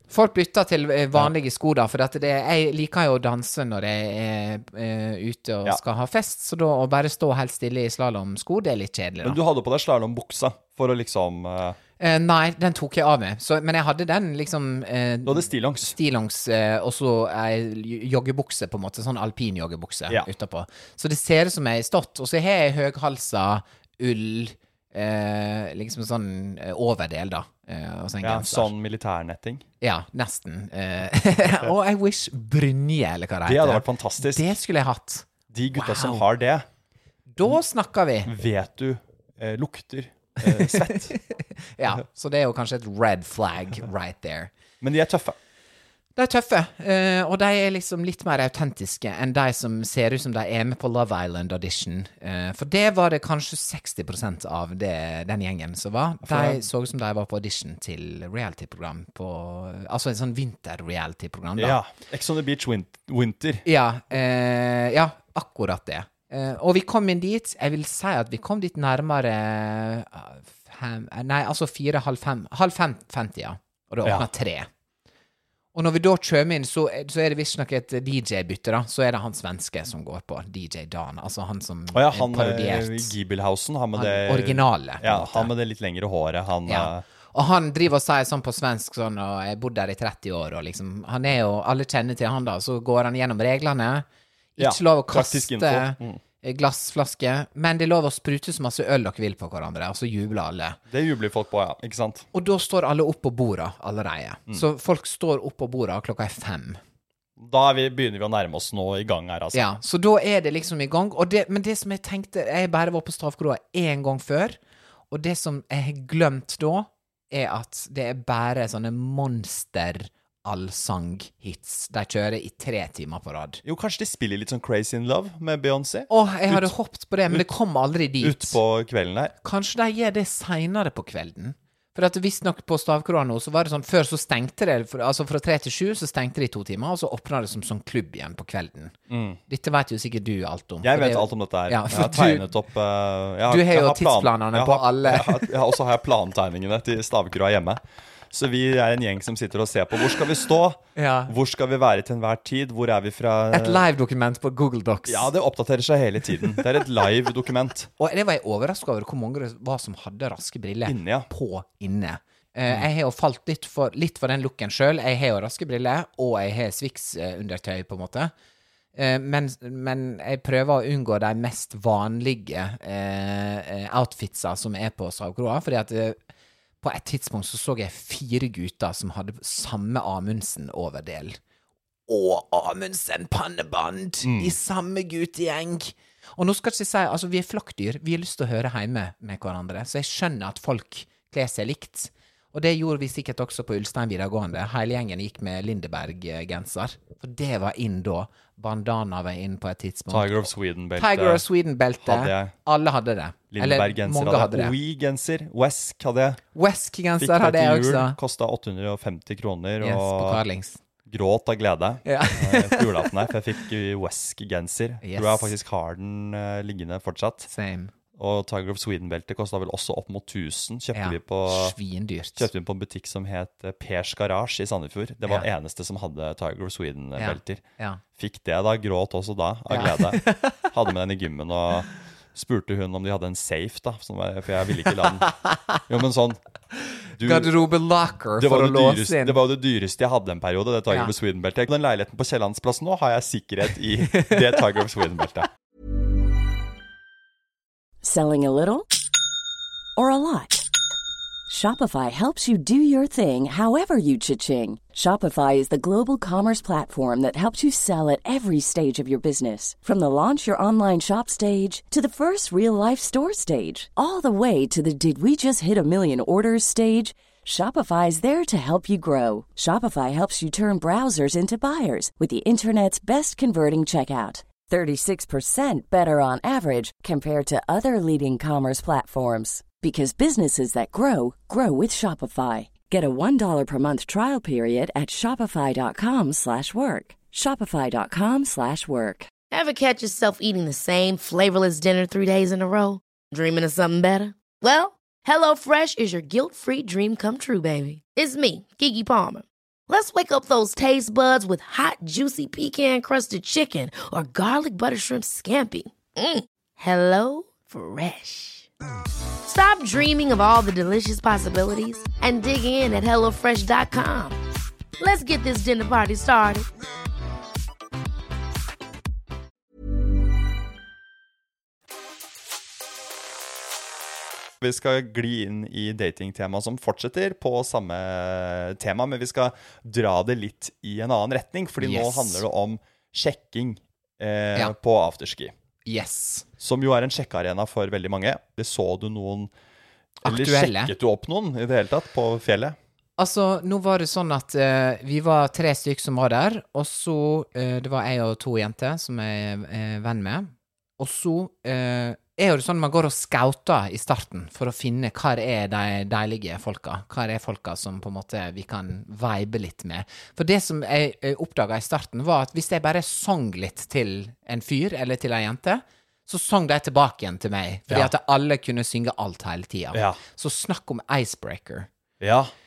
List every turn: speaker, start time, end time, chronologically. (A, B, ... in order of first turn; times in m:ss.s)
0:00.1-0:09.4 A
0:09.2-0:11.8 B
0:12.0-0:28.7 A
0:15.3-0:16.0 B
0:28.2-0:29.7 B
0:29.8-0:36.2 A
0:33.4-0:34.6 B
0:35.5-0:36.7 B
0:37.3-0:38.3 A
0:38.2-0:41.2 B
0:40.4-0:44.5 A
0:44.8-0:45.4 B
0:46.2-1:01.8 A
0:56.2-0:56.7 B
1:01.6-1:03.6 B
1:03.7-1:14.7 A
1:14.0-1:14.3 B
1:15.7-1:23.1 A
1:21.9-1:27.0 B
1:24.0-1:25.5 A
1:26.7-1:34.0 A
1:34.6-1:40.8 A
1:34.6-1:36.2 B
1:40.9-1:42.3 B
1:42.3-1:46.8 A
1:47.4-1:49.6 B
1:49.5-1:54.6 A
1:55.1-2:03.6 A
2:03.6-2:06.7 B
2:06.1-2:08.6 A
2:08.2-2:09.3 B
2:09.4-2:18.9 A
2:19.1-2:19.4 B
2:19.5-2:22.5 A
2:20.8-2:33.9 B
2:23.5-2:25.6 A
2:31.0-2:31.3 A
2:33.5-2:35.3 A
2:35.1-2:37.9 B
2:38.0-2:48.3 A
2:40.8-2:41.3 B
2:49.0-2:56.2 A
2:56.8-3:01.4 A
3:02.1-3:20.4 A
3:04.2-3:04.6 B
3:20.1-3:21.4 B
3:21.0-3:24.7 A
3:22.0-3:22.5 B
3:23.5-3:26.4 B
3:26.6-3:28.2 A
3:27.2-3:30.4 B
3:29.8-3:30.8 A
3:31.1-3:37.5 B
3:32.1-3:33.3 A
3:35.0-3:35.5 A
3:37.5-3:37.9 A
3:38.2-3:41.8 B
3:41.0-3:42.5 A
3:42.4-3:47.6 B
3:47.2-3:48.0 A
3:48.2-3:55.3 B
3:49.7-3:50.6 A
3:55.1-3:55.8 A
3:55.9-3:56.4 B
3:57.2-3:57.5 B
3:57.2-3:59.4 A
3:58.4-4:05.5 B
4:08.0-4:08.9 C
4:10.0-4:10.7 C
4:11.5-4:49.3 C
4:49.5-5:08.7 D
5:09.4-5:14.4 D
5:15.0-5:16.7 D
5:24.6-5:35.5 B
5:31.8-5:32.4 A
5:35.9-5:36.5 A
5:36.6-5:39.5 B
5:40.2-5:40.9 A
5:40.2-5:42.8 B
5:43.2-6:11.9 A
6:09.9-6:10.2 B
6:12.2-6:12.5 B